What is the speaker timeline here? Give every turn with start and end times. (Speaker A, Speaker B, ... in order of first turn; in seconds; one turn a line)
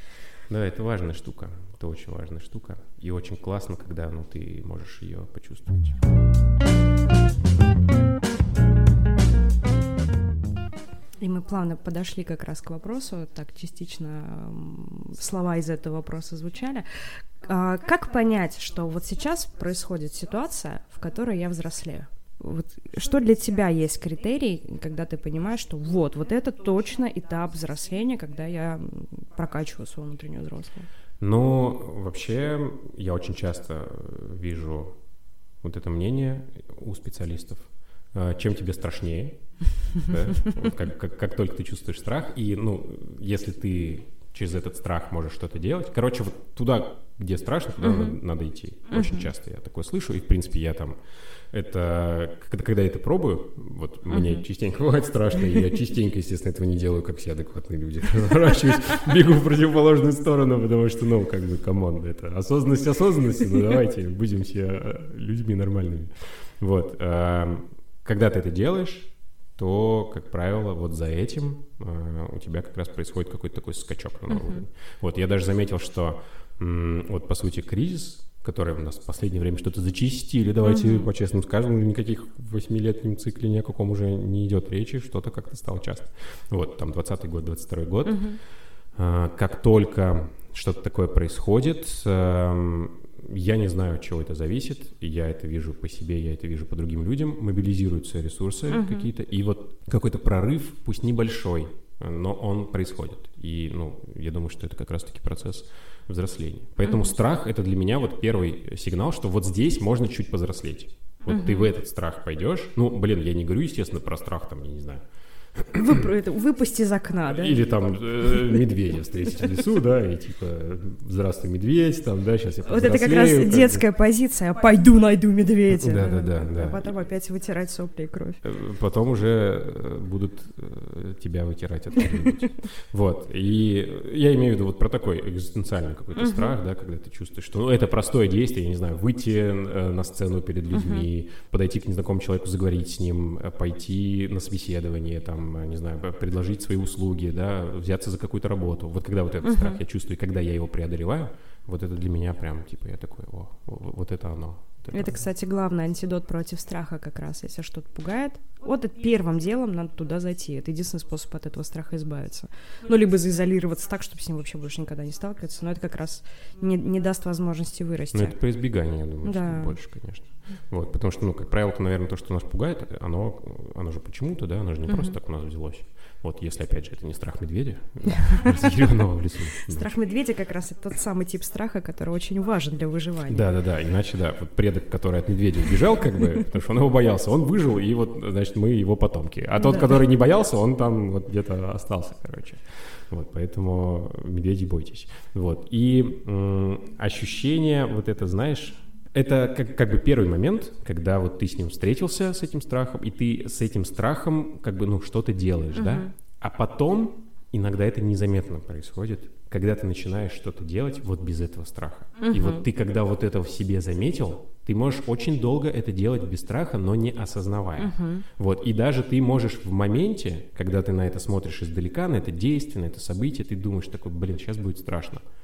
Speaker A: 0.5-6.0
Speaker B: 11.2-16.8
Speaker B: 17.4-30.9
Speaker A: 31.2-35.0
Speaker A: 35.6-51.0
Speaker B: 47.8-48.2
Speaker B: 48.9-49.3
Speaker A: 51.5-88.4
Speaker B: 54.1-54.4
Speaker B: 74.3-74.6
Speaker B: 80.6-81.1
Speaker B: 88.0-88.4
Speaker A: 88.9-115.0
Speaker B: 98.7-99.1
Speaker B: 106.8-107.1
Speaker B: 111.3-111.7
Speaker A: 115.6-116.0
Speaker B: 115.7-117.6
Speaker A: 117.3-123.8
Speaker B: 122.6-128.4
Speaker A: 125.7-126.9
Speaker A: 128.4-155.2
Speaker B: 136.2-136.5
Speaker B: 140.7-141.1
Speaker B: 149.4-149.8
Speaker B: 154.9-168.3
Speaker A: 168.1-179.9
Speaker B: 169.2-169.8
Speaker B: 174.9-175.2
Speaker B: 178.2-178.9
Speaker B: 179.6-183.4
Speaker A: 183.3-225.2
Speaker B: 189.6-190.0
Speaker B: 205.7-206.1
Speaker B: 212.2-212.6
Speaker B: 217.8-218.2